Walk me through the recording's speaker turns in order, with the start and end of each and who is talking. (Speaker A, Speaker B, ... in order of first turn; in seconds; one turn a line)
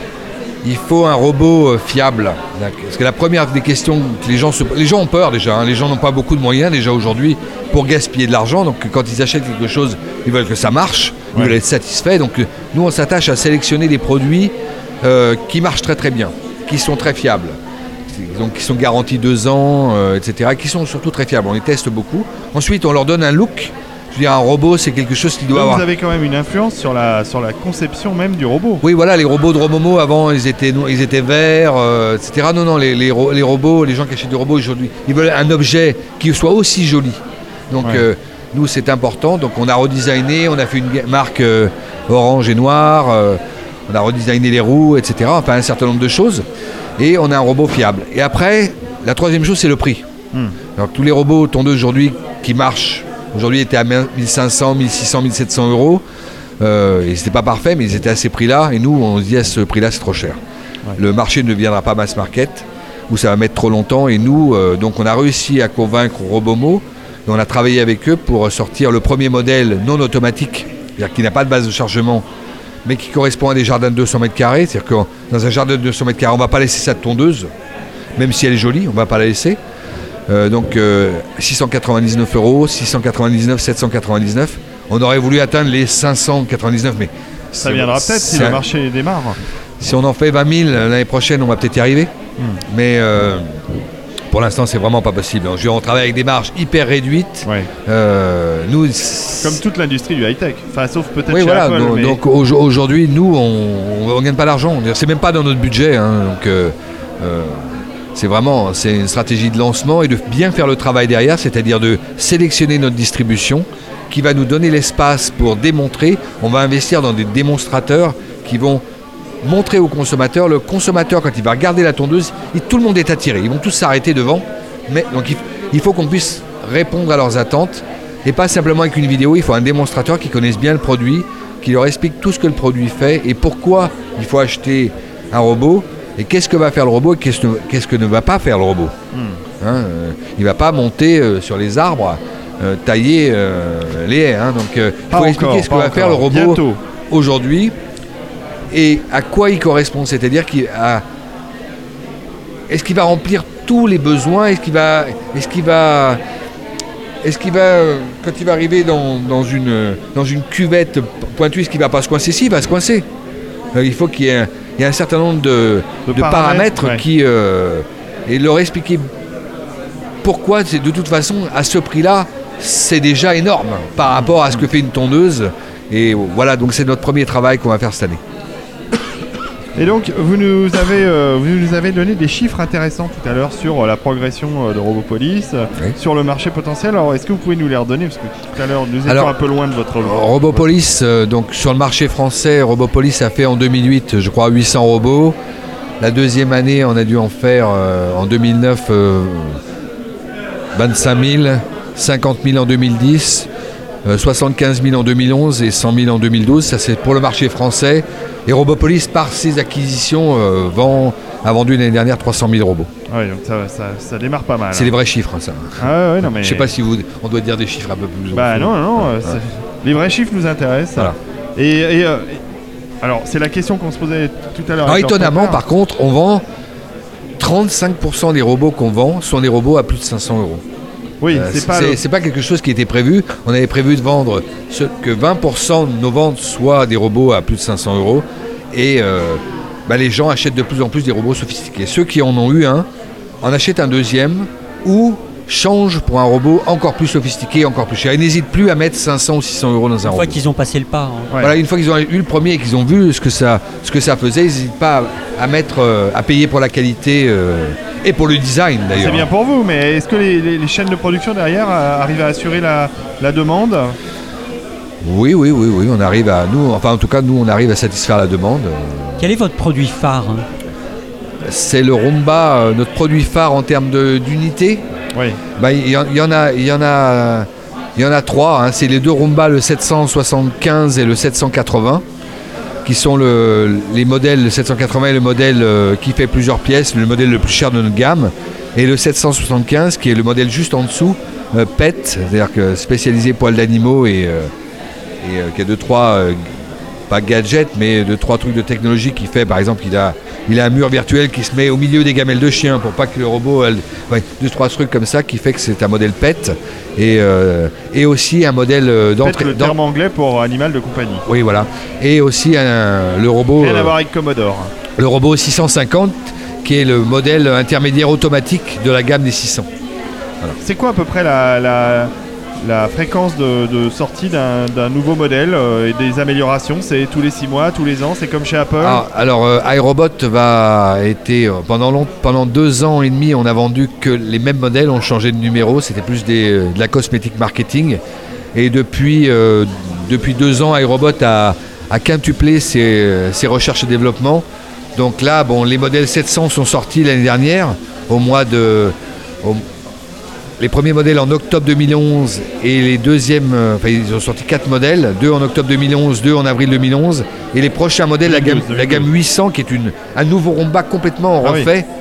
Speaker A: 0.6-17.6
Speaker B: 11.3-11.6
Speaker A: 18.1-25.8
Speaker B: 25.5-28.8
Speaker A: 28.8-46.5
Speaker A: 47.0-50.0
Speaker A: 50.8-56.0
Speaker A: 56.6-60.4
Speaker A: 61.0-72.2
Speaker A: 72.8-77.5
Speaker A: 78.2-79.6
Speaker A: 80.3-88.6
Speaker B: 87.6-89.4
Speaker A: 89.8-92.1
Speaker A: 92.7-93.7
Speaker A: 94.3-99.6
Speaker B: 97.5-97.7
Speaker B: 99.4-102.2
Speaker A: 101.3-118.8
Speaker A: 119.4-138.9
Speaker B: 139.1-139.4
Speaker A: 139.6-147.8
Speaker B: 145.1-146.8
Speaker A: 148.7-151.0
Speaker A: 152.7-156.2
Speaker A: 157.2-163.1
Speaker A: 163.7-169.1
Speaker B: 166.1-167.0
Speaker A: 170.2-178.2
Speaker B: 174.2-174.7
Speaker B: 179.8-190.7
Speaker A: 189.1-189.3
Speaker A: 190.0-195.4
Speaker A: 196.0-199.6
Speaker A: 200.8-203.5
Speaker A: 204.1-212.9
Speaker B: 213.1-214.9
Speaker A: 214.7-219.3
Speaker B: 215.8-216.7
Speaker B: 218.3-222.4
Speaker B: 223.0-225.6
Speaker A: 224.9-226.4
Speaker A: 227.4-230.6
Speaker B: 231.2-232.0
Speaker A: 231.3-242.9
Speaker A: 243.4-250.4
Speaker C: 250.0-251.4
Speaker A: 251.4-259.2
Speaker B: 258.9-264.0
Speaker A: 265.0-269.2
Speaker C: 269.2-270.5
Speaker A: 271.4-274.8
Speaker B: 275.1-275.4
Speaker A: 275.6-282.1
Speaker A: 282.9-294.5
Speaker A: 295.2-296.5
Speaker A: 297.1-309.8
Speaker B: 309.2-311.2
Speaker A: 311.3-313.9
Speaker B: 313.6-314.7
Speaker A: 315.0-319.7
Speaker B: 320.6-329.0
Speaker A: 328.8-338.0
Speaker A: 338.6-344.4
Speaker A: 345.0-349.7
Speaker A: 350.6-361.9
Speaker B: 358.2-359.1
Speaker B: 361.4-361.7